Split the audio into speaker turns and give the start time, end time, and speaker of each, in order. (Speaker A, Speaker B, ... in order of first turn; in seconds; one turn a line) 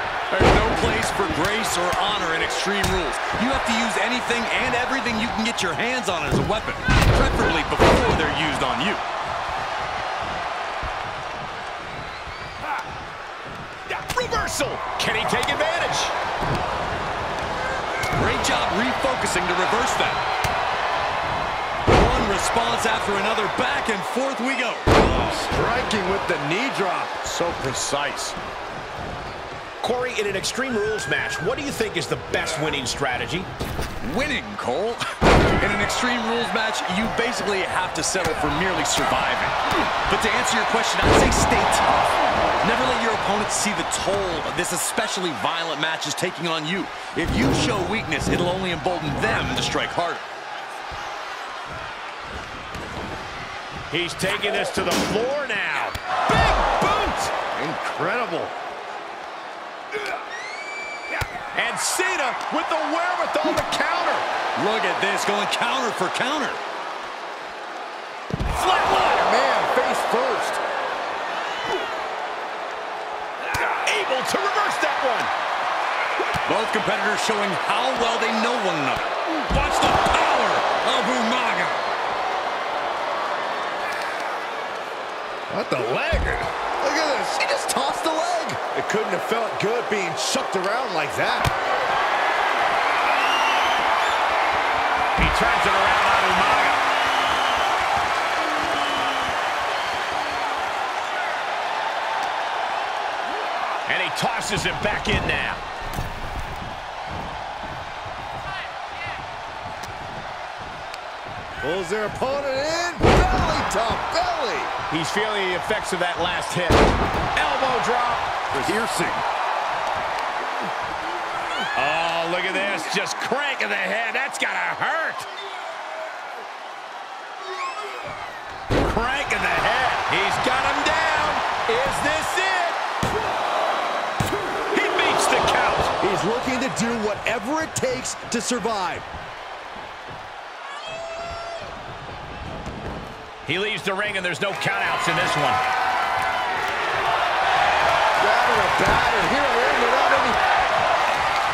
Speaker A: 0.3-9.0
Speaker B: 13.9-16.1
Speaker A: 18.1-20.2
Speaker A: 21.9-24.9
Speaker C: 25.1-27.3
Speaker A: 27.3-28.4
Speaker B: 29.8-33.5
Speaker A: 34.0-35.0
Speaker A: 35.6-41.9
Speaker A: 42.6-50.2
Speaker B: 53.9-57.3
Speaker C: 57.6-58.5
Speaker B: 61.5-64.3
Speaker A: 64.6-66.6
Speaker C: 68.5-70.6
Speaker B: 73.8-75.3
Speaker A: 76.5-81.8
Speaker C: 85.5-91.5
Speaker B: 95.2-96.9
Speaker B: 103.9-105.6
Speaker C: 111.6-114.7
Speaker B: 114.9-118.8
Speaker A: 118.6-119.2
Speaker B: 121.8-125.3
Speaker B: 128.8-132.8
Speaker B: 134.7-135.9
Speaker C: 136.0-139.1
Speaker B: 143.4-145.6
Speaker C: 148.2-150.4